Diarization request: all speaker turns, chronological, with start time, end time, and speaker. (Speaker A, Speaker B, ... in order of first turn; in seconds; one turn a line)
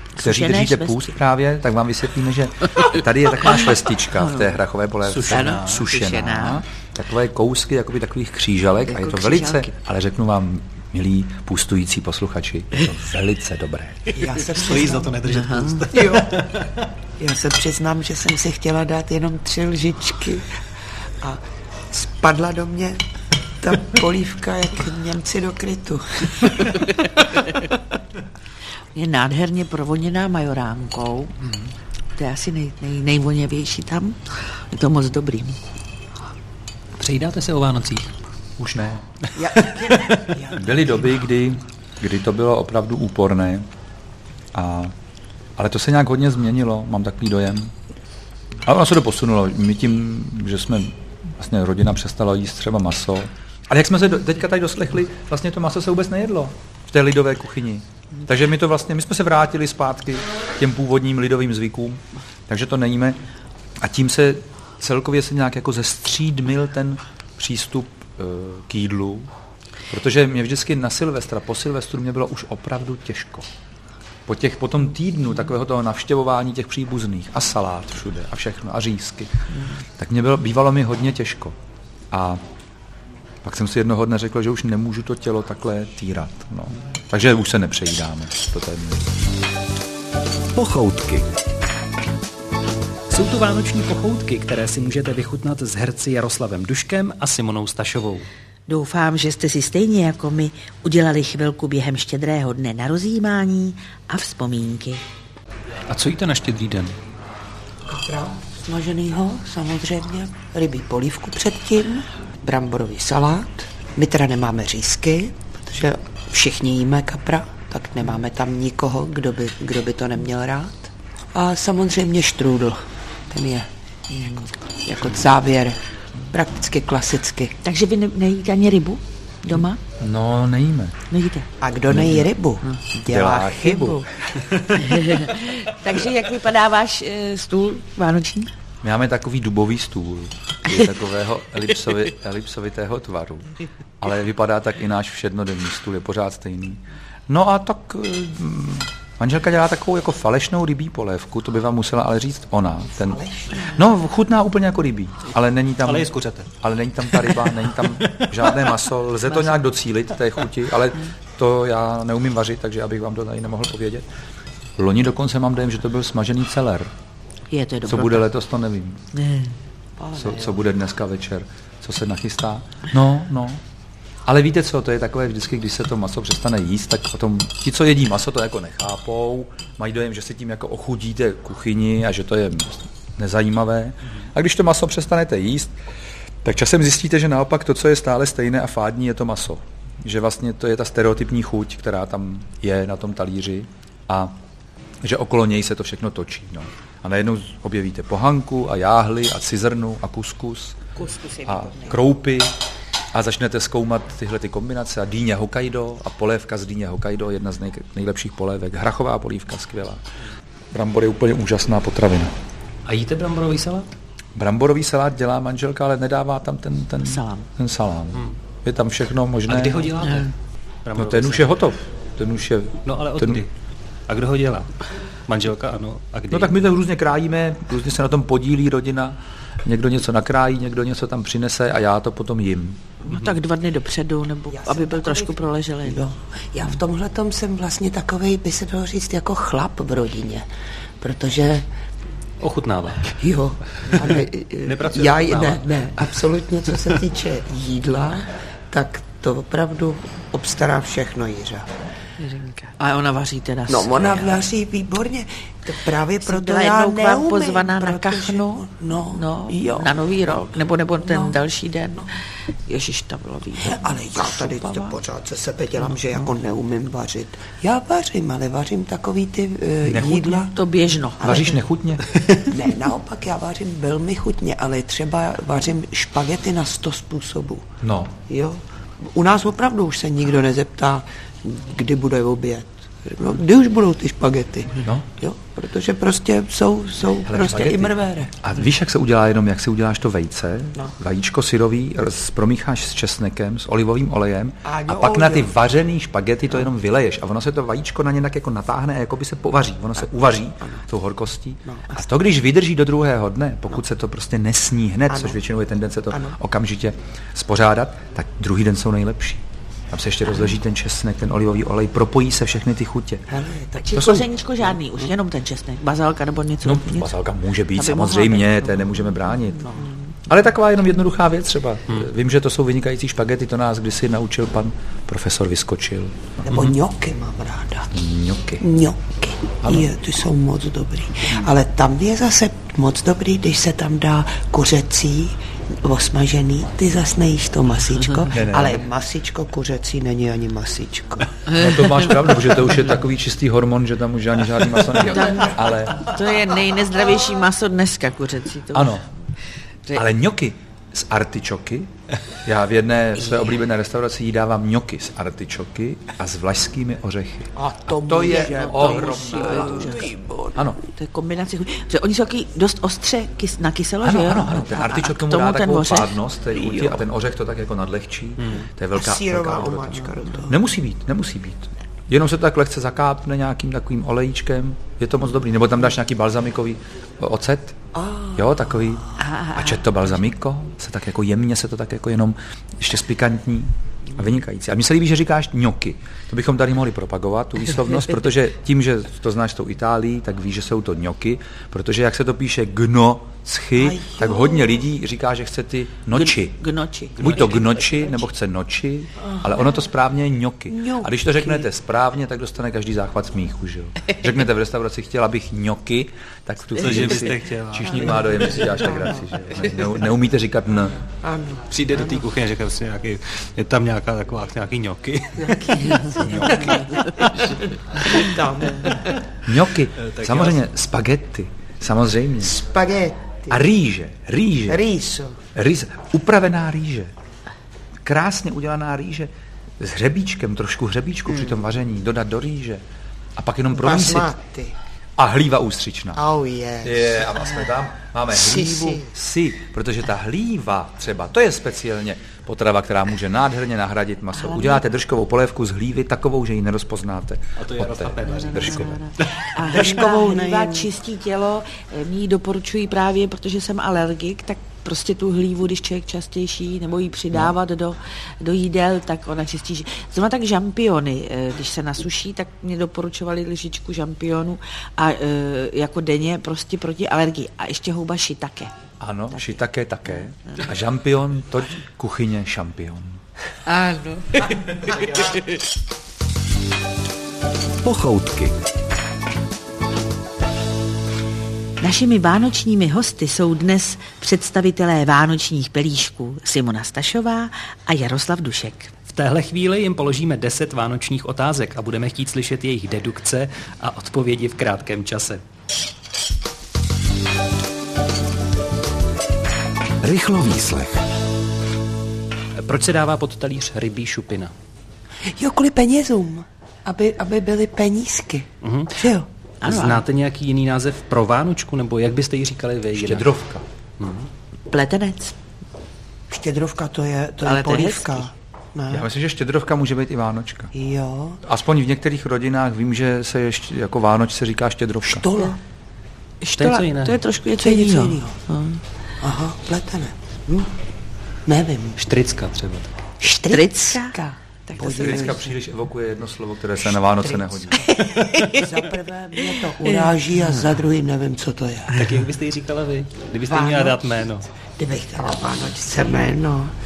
Speaker A: 0.1-1.1
Speaker B: 0.2-14.2
Speaker A: 4.1-4.5
Speaker C: 5.1-5.8
Speaker A: 5.2-6.6
Speaker A: 8.9-9.7
Speaker D: 14.1-15.2
Speaker C: 14.4-16.5
Speaker A: 15.4-15.8
Speaker D: 15.9-16.5
Speaker D: 17.2-20.5
Speaker D: 21.2-23.0
Speaker D: 23.6-26.9
Speaker A: 28.9-31.4
Speaker B: 31.4-31.7
Speaker A: 32.1-35.6
Speaker C: 37.0-38.1
Speaker B: 38.6-39.0
Speaker D: 39.4-40.7
Speaker C: 39.6-40.2
Speaker B: 40.5-43.6
Speaker B: 44.5-44.9
Speaker B: 45.6-47.7
Speaker B: 48.6-63.2
Speaker B: 63.8-69.3
Speaker B: 69.9-73.5
Speaker B: 74.2-81.5
Speaker B: 82.1-82.4
Speaker B: 83.4-89.1
Speaker E: 90.5-91.3
Speaker C: 93.1-98.3
Speaker A: 98.7-105.0
Speaker C: 105.9-106.9
Speaker D: 107.8-127.5
Speaker A: 124.1-124.5
Speaker A: 127.6-129.8
Speaker B: 130.0-131.0
Speaker A: 131.1-131.5
Speaker D: 131.6-134.0
Speaker B: 131.9-132.3
Speaker B: 133.1-134.5
Speaker A: 134.7-138.5
Speaker B: 138.8-164.1
Speaker D: 153.0-153.8
Speaker C: 155.8-156.5
Speaker C: 157.1-158.7
Speaker B: 164.8-166.9
Speaker A: 167.5-168.3
Speaker B: 167.9-169.0
Speaker A: 169.1-169.6
Speaker B: 170.1-173.6
Speaker B: 174.2-185.7
Speaker B: 186.4-194.3
Speaker B: 195.0-200.9
Speaker A: 201.0-201.9
Speaker B: 201.4-202.5
Speaker B: 203.1-210.0
Speaker B: 210.7-212.3
Speaker C: 212.9-213.9
Speaker B: 214.3-219.9
Speaker A: 217.0-217.5
Speaker C: 219.5-220.3
Speaker A: 220.0-220.3
Speaker C: 220.8-221.5
Speaker B: 220.9-223.4
Speaker C: 222.8-223.5
Speaker C: 224.1-226.5
Speaker B: 226.3-232.8
Speaker A: 233.0-236.1
Speaker C: 233.1-233.3
Speaker D: 234.5-240.4
Speaker D: 241.0-241.6
Speaker C: 242.4-243.2
Speaker D: 243.1-251.7
Speaker C: 243.8-246.2
Speaker A: 252.2-254.4
Speaker D: 253.7-259.9
Speaker A: 256.2-265.0
Speaker D: 261.0-261.4
Speaker D: 263.6-270.5
Speaker B: 269.9-270.5
Speaker A: 270.5-271.5
Speaker B: 271.2-272.0
Speaker D: 271.2-271.5
Speaker D: 272.4-277.7
Speaker B: 277.8-278.1
Speaker D: 278.2-288.3
Speaker B: 287.2-313.2
Speaker D: 294.6-295.5
Speaker D: 301.6-302.1
Speaker D: 305.1-305.4
Speaker D: 306.1-306.4
Speaker D: 313.3-315.1
Speaker A: 313.8-317.1
Speaker B: 313.9-314.2
Speaker B: 316.6-319.7
Speaker A: 317.7-320.0
Speaker B: 320.2-326.3
Speaker D: 326.4-327.9
Speaker C: 326.5-326.8
Speaker B: 327.9-328.6
Speaker D: 328.6-341.4
Speaker B: 329.6-329.9
Speaker B: 338.3-338.9
Speaker A: 341.5-342.0
Speaker B: 341.5-346.0
Speaker A: 345.1-349.3
Speaker B: 348.7-349.1
Speaker B: 349.9-351.9
Speaker B: 352.4-360.8
Speaker D: 357.6-360.6
Speaker A: 358.1-360.1
Speaker A: 360.8-366.1
Speaker B: 364.0-396.6
Speaker D: 366.5-367.0
Speaker D: 368.9-370.6
Speaker D: 377.9-379.2
Speaker A: 379.2-379.9
Speaker D: 393.8-394.8
Speaker A: 396.1-398.2
Speaker B: 397.2-411.0
Speaker C: 397.2-397.5
Speaker D: 399.3-399.6
Speaker D: 400.7-401.7
Speaker C: 406.8-408.3
Speaker D: 408.0-409.3
Speaker D: 411.2-412.2
Speaker C: 411.7-416.4
Speaker D: 415.4-419.2
Speaker B: 416.1-416.8
Speaker B: 419.4-422.5
Speaker C: 420.0-420.6
Speaker D: 422.4-423.6
Speaker B: 423.5-424.8
Speaker D: 424.7-425.4
Speaker B: 425.5-427.1
Speaker B: 428.0-432.8
Speaker D: 431.3-431.6
Speaker B: 433.4-434.3
Speaker D: 433.7-434.8
Speaker B: 435.2-436.2
Speaker D: 436.1-437.1
Speaker B: 436.8-449.0
Speaker D: 438.3-439.1
Speaker A: 444.3-444.8
Speaker C: 447.6-449.5
Speaker A: 448.3-468.7
Speaker D: 449.6-450.9
Speaker B: 469.0-473.2
Speaker A: 469.3-470.6
Speaker A: 473.6-475.4
Speaker E: 477.8-478.6
Speaker A: 481.8-488.9
Speaker C: 489.1-495.4
Speaker E: 500.0-501.0
Speaker C: 502.6-504.5
Speaker D: 505.2-509.3
Speaker C: 508.6-509.0
Speaker A: 509.6-510.0
Speaker C: 509.6-513.3
Speaker B: 512.9-513.6
Speaker C: 514.0-514.3
Speaker A: 514.7-515.4
Speaker D: 516.3-519.0
Speaker A: 517.4-518.3
Speaker B: 518.9-520.7
Speaker D: 520.7-521.4
Speaker B: 521.4-525.2
Speaker D: 525.0-525.6
Speaker A: 526.4-528.8
Speaker C: 526.5-527.2
Speaker D: 527.6-528.4
Speaker D: 529.2-530.7
Speaker D: 531.5-532.0
Speaker C: 532.0-532.9
Speaker D: 533.2-535.5
Speaker A: 533.2-534.1
Speaker A: 534.7-535.3
Speaker B: 534.8-537.9
Speaker D: 536.9-542.0
Speaker A: 537.8-538.7
Speaker A: 539.5-540.0
Speaker C: 541.9-544.5
Speaker D: 543.5-544.1
Speaker D: 544.8-546.7